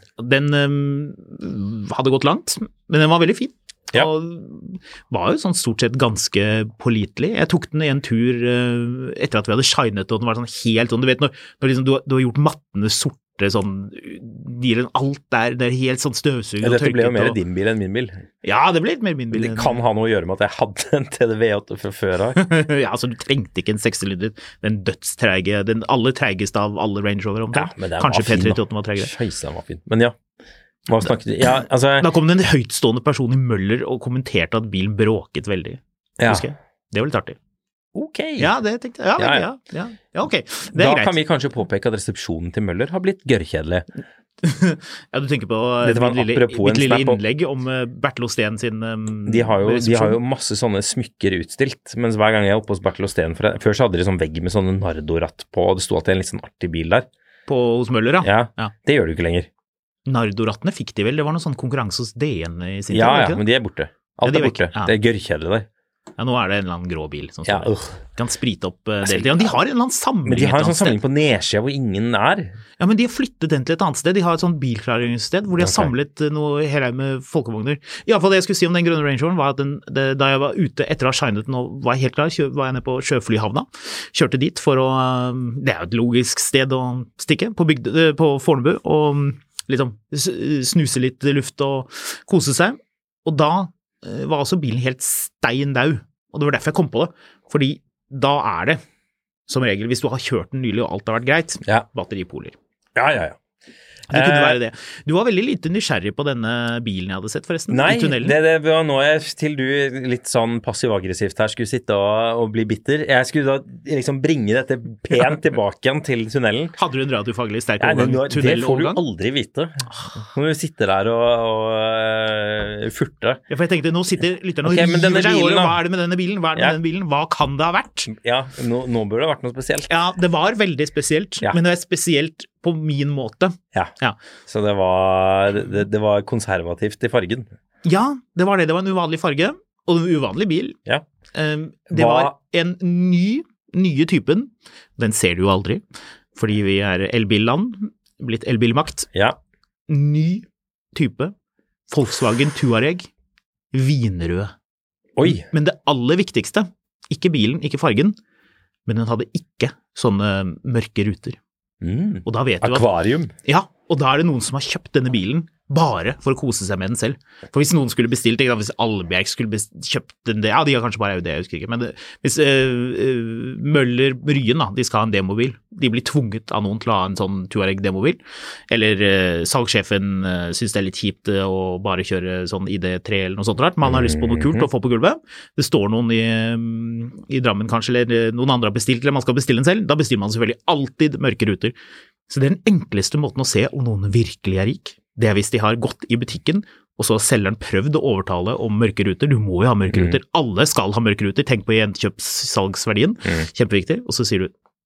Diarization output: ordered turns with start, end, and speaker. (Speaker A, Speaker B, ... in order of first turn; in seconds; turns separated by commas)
Speaker A: 0.2-17.4, Speaker B: 16.6-18.2, Speaker A: 18.4-19.8, Speaker B: 19.3-22.4, Speaker A: 22.4-29.1, Speaker B: 27.5-30.2, Speaker B: 30.9-32.1, Speaker A: 32.0-37.4, Speaker B: 36.2-36.5, Speaker B: 37.9-38.5, Speaker A: 38.4-41.2, Speaker B: 39.2-39.5, Speaker B: 40.7-43.9, Speaker A: 44.4-50.2, Speaker B: 45.8-47.2, Speaker B: 49.3-57.1, Speaker A: 57.5-58.7, Speaker B: 58.2-59.5, Speaker A: 60.1-63.5, Speaker B: 62.9-65.7, Speaker A: 64.2-65.0, Speaker A: 66.2-71.0, Speaker B: 67.5-68.0, Speaker B: 70.2-72.6, Speaker A: 72.8-98.8, Speaker B: 75.6-75.9, Speaker A: 99.5-102.5, Speaker B: 103.0-103.4, Speaker B: 104.1-104.6, Speaker A: 104.1-108.4, Speaker B: 107.7-116.8, Speaker A: 116.8-119.0, Speaker B: 117.8-123.4, Speaker A: 123.5-128.1, Speaker B: 124.6-125.8, Speaker B: 128.1-129.9, Speaker A: 129.9-134.2, Speaker B: 134.5-137.5, Speaker A: 137.8-140.8, Speaker A: 141.3-145.8, Speaker B: 141.9-142.3, Speaker A: 146.4-149.1, Speaker A: 149.9-151.3, Speaker A: 151.9-153.1, Speaker A: 153.7-154.5, Speaker B: 155.2-155.4, Speaker A: 155.2-158.2, Speaker A: 158.9-161.4, Speaker B: 161.8-163.3, Speaker A: 162.3-162.9, Speaker A: 163.4-191.8, Speaker B: 183.8-184.7, Speaker A: 192.3-204.5, Speaker B: 199.9-200.2